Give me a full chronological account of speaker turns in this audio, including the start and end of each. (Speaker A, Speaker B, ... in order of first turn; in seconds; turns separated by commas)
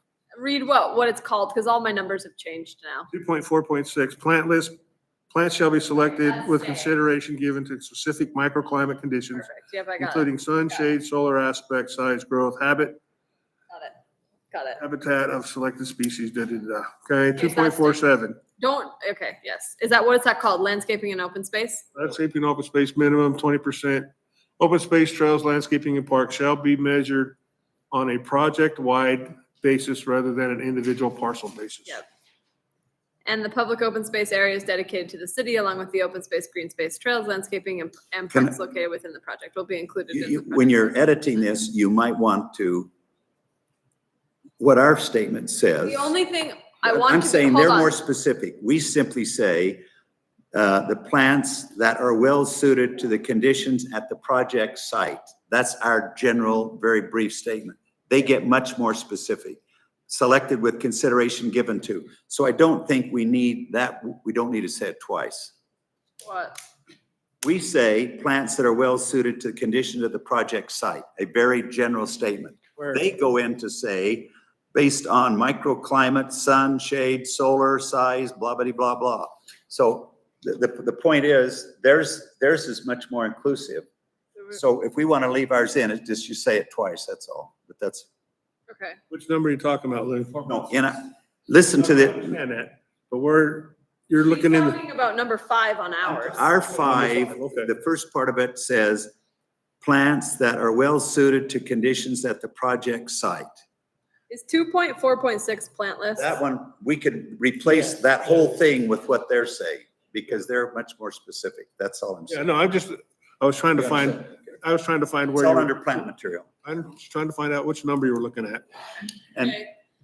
Speaker A: 0.3-3.1, Speaker B: 3.1-4.8, Speaker B: 5.3-13.0, Speaker A: 6.2-6.9, Speaker A: 9.3-10.9, Speaker A: 13.7-13.9, Speaker A: 14.5-14.8, Speaker B: 14.8-18.4, Speaker A: 17.4-18.0, Speaker A: 18.6-21.9, Speaker B: 21.9-27.4, Speaker B: 27.9-32.0, Speaker A: 33.2-41.0, Speaker C: 40.1-42.9, Speaker C: 44.6-46.1, Speaker A: 45.8-47.9, Speaker C: 46.8-49.8, Speaker C: 50.5-65.5, Speaker A: 66.2-66.6, Speaker C: 67.4-83.8, Speaker B: 72.8-73.0, Speaker C: 84.5-88.1, Speaker A: 88.7-89.0, Speaker B: 89.1-90.4, Speaker C: 90.4-92.4, Speaker B: 91.7-94.8, Speaker A: 94.2-96.4, Speaker C: 96.0-99.1, Speaker B: 96.7-97.7, Speaker C: 99.8-103.6, Speaker A: 104.3-106.3, Speaker C: 106.2-112.5, Speaker B: 112.3-115.8, Speaker C: 113.7-114.3, Speaker C: 115.3-116.5, Speaker B: 116.6-118.6, Speaker C: 119.3-119.6